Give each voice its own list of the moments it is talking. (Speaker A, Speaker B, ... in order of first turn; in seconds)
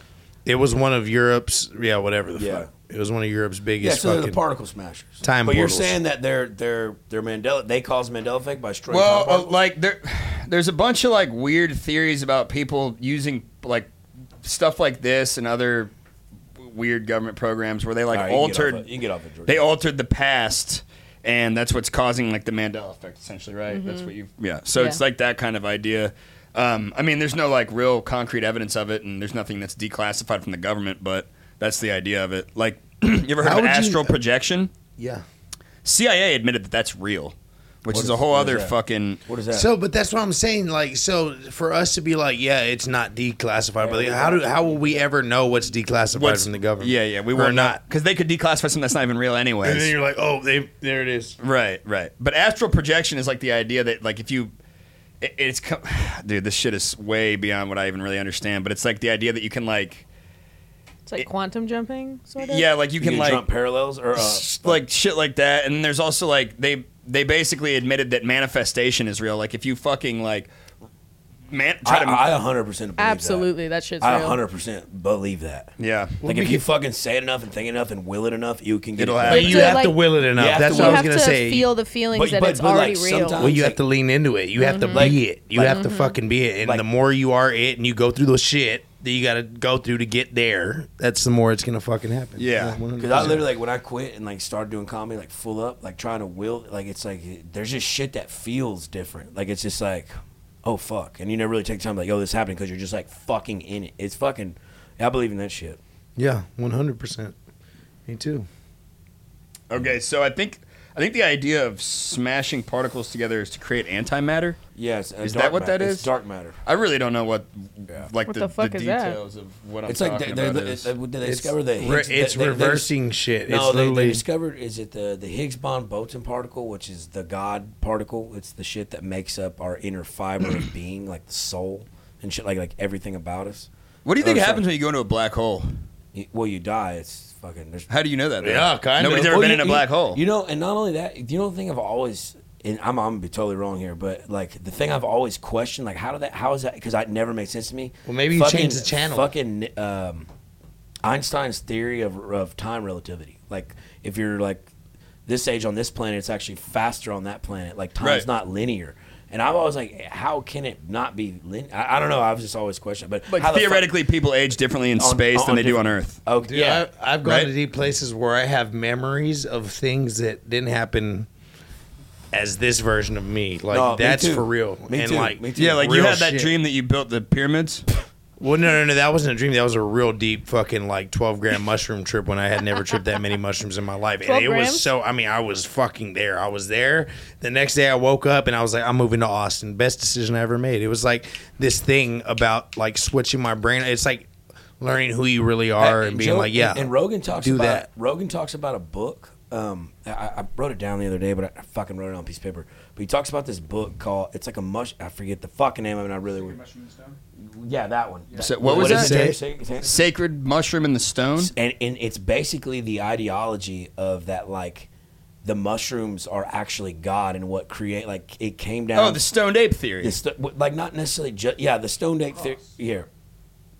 Speaker A: 0.4-4.4, 5.2-6.0, 33.4-34.1, 35.0-35.2, 39.5-47.8, 49.6-51.4, 79.3-81.7, 83.4-93.5, 106.2-107.3, 108.1-108.5, 121.2-124.2, 138.4-139.4, 148.1-149.3, 166.5-171.3, 172.3-176.5, 178.4-197.8, 208.6-209.3
Speaker B: 2.4-2.7, 3.8-9.6, 18.1-19.6, 37.9-39.7, 43.8-45.1, 63.0-64.8, 71.8-73.5, 74.0-79.8, 80.3-81.0, 82.1-83.8, 84.9-85.9, 93.0-100.1, 100.6-105.8, 114.7-116.6, 119.8-122.9, 123.5-133.7, 134.2-134.7, 136.1-137.9, 139.2-150.3, 151.0-154.7, 155.3-163.9, 165.0-166.8, 173.7-175.8, 195.8-210.0, 211.4-214.9, 215.4-219.2, 220.0-223.1
Speaker C: 8.9-13.9, 14.4-15.9, 16.6-18.9, 19.4-34.7, 35.8-39.2, 46.1-50.0, 51.4-54.5, 55.2-60.0, 62.4-63.4, 64.1-70.5, 71.5-72.2, 75.8-76.5, 79.0-79.9, 92.4-93.4, 109.7-114.6, 115.2-116.1, 116.6-120.9, 134.0-135.7, 137.9-140.2, 163.3-166.2, 167.2-167.5, 175.6-177.8, 208.4-211.5, 218.9-220.2
Speaker D: 23.7-24.1, 61.1-62.7, 73.0-74.4, 79.3-80.2, 80.7-83.4, 84.6-86.2, 118.3-119.2, 184.2-184.9